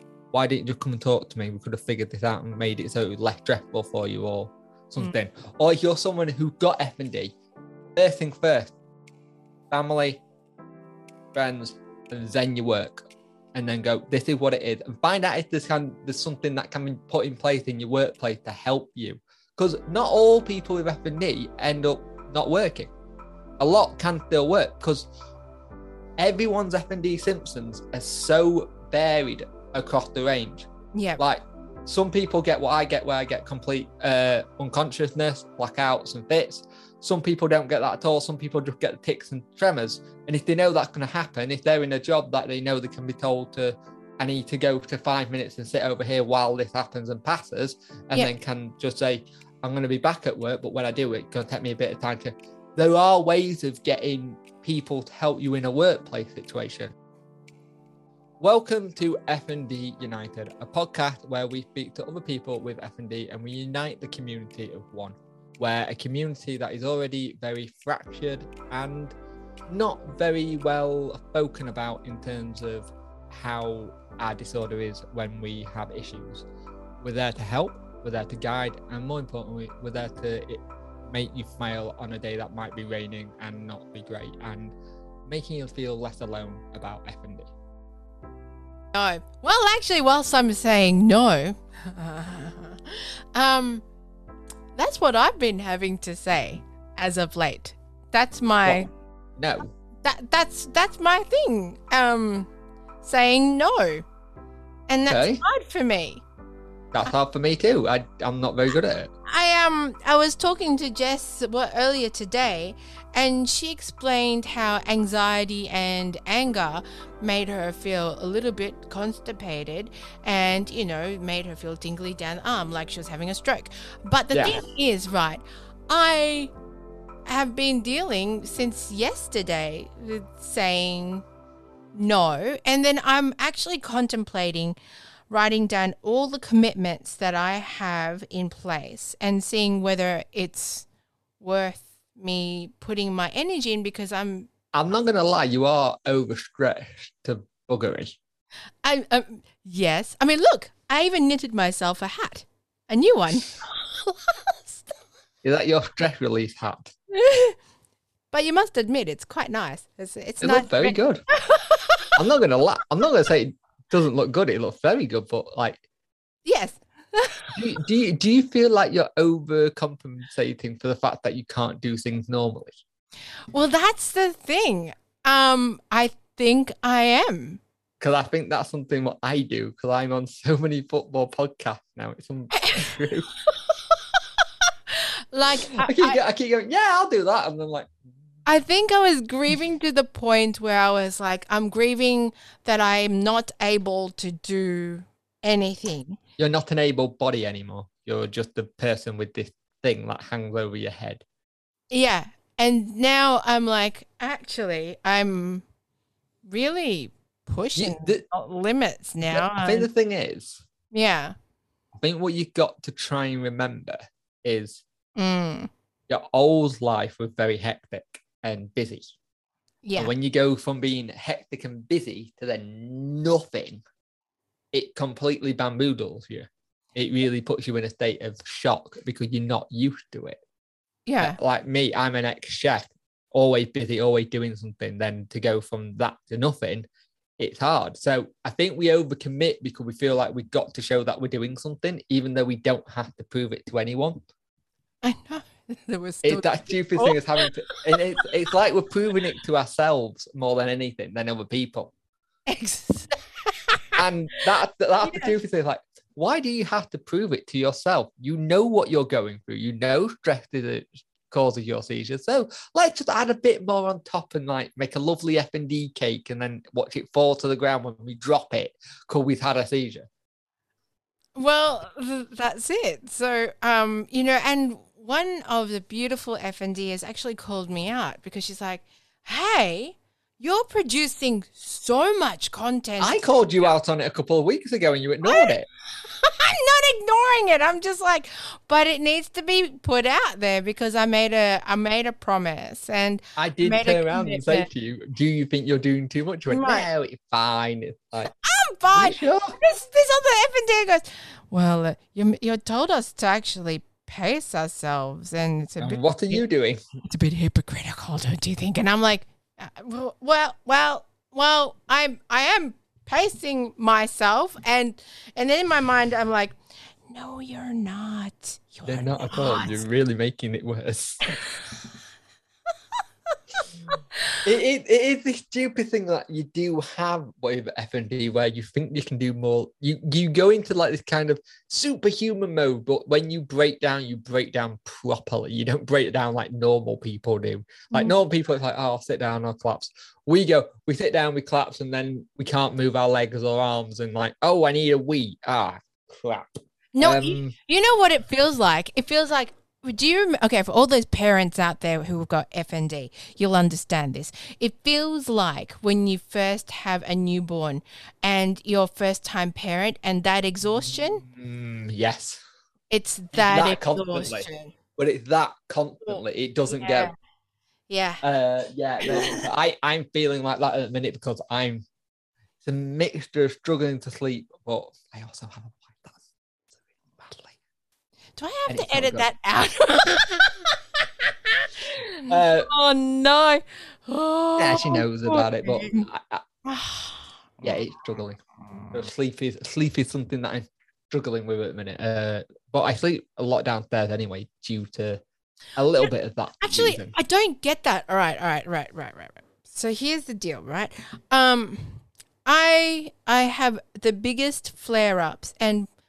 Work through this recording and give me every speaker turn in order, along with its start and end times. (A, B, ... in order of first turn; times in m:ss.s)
0:00.3-0:07.4 A
0:08.0-0:08.8 A
0:09.7-0:10.2 A
0:11.3-0:22.9 A
0:23.6-0:25.1 A
0:26.2-0:56.9 A
0:30.9-0:31.2 B
0:58.4-1:09.2 A
1:09.7-1:16.4 A
1:17.0-1:24.8 A
1:25.3-1:27.5 A
1:28.9-1:33.8 B
1:34.8-1:38.9 B
1:39.4-1:39.7 A
1:40.0-1:42.5 B
1:43.0-1:44.0 B
1:44.9-1:46.2 B
1:45.1-1:45.4 A
1:46.9-1:49.1 A
1:49.2-2:06.5 B
2:04.3-2:04.6 A
2:07.3-2:11.2 B
2:11.9-2:14.8 B
2:15.3-2:20.9 B
2:21.4-2:24.5 B
2:24.7-2:28.2 A
2:28.8-2:35.0 B
2:35.4-2:36.9 A
2:37.1-2:37.6 B
2:38.3-2:42.2 B
2:40.4-2:41.2 A
2:42.2-2:45.8 A
2:46.4-2:47.6 B
2:47.5-2:52.8 A
2:53.5-2:57.6 B
2:58.0-3:03.3 A
3:02.6-3:06.2 B
3:05.8-3:07.9 A
3:08.5-3:16.2 B
3:16.4-3:21.2 A
3:21.9-3:25.6 B
3:26.4-3:29.9 B
3:27.8-3:28.2 A
3:29.2-3:30.6 A
3:30.9-3:31.4 B
3:32.0-3:34.8 A
3:35.2-3:35.7 B
3:36.1-3:39.1 A
3:39.8-3:40.1 B
3:40.0-3:43.8 A
3:44.7-3:50.4 A
3:51.1-3:51.4 B
3:51.2-3:56.9 A
3:57.4-4:04.2 A
4:05.0-4:07.4 B
4:06.2-4:11.9 A
4:12.5-4:13.8 B
4:14.0-4:30.1 A
4:15.0-4:15.3 B
4:31.4-4:43.7 B
4:43.0-4:45.7 A
4:45.2-4:54.7 B
4:53.4-4:58.3 A
4:56.5-4:56.9 B
4:58.3-5:06.4 B
4:58.9-4:59.6 A
5:05.8-5:06.8 A
5:07.0-5:19.8 B
5:18.9-5:21.4 A
5:23.9-5:24.4 B
5:24.4-5:47.6 A
5:37.9-5:38.2 B
5:47.0-6:01.2 B
6:00.7-6:02.4 A
6:02.9-6:04.8 B
6:03.3-6:07.1 A
6:06.7-6:07.1 B
6:07.9-6:08.2 B
6:08.2-6:11.9 A
6:09.0-6:09.4 B
6:12.6-6:16.2 A
6:17.2-6:17.6 A
6:18.4-6:26.1 B
6:18.7-6:19.3 A
6:22.3-6:22.7 A
6:24.6-6:26.4 A
6:26.6-6:27.8 B
6:27.6-6:28.4 A
6:28.9-6:35.2 A
6:35.8-6:37.1 A
6:36.6-6:45.9 B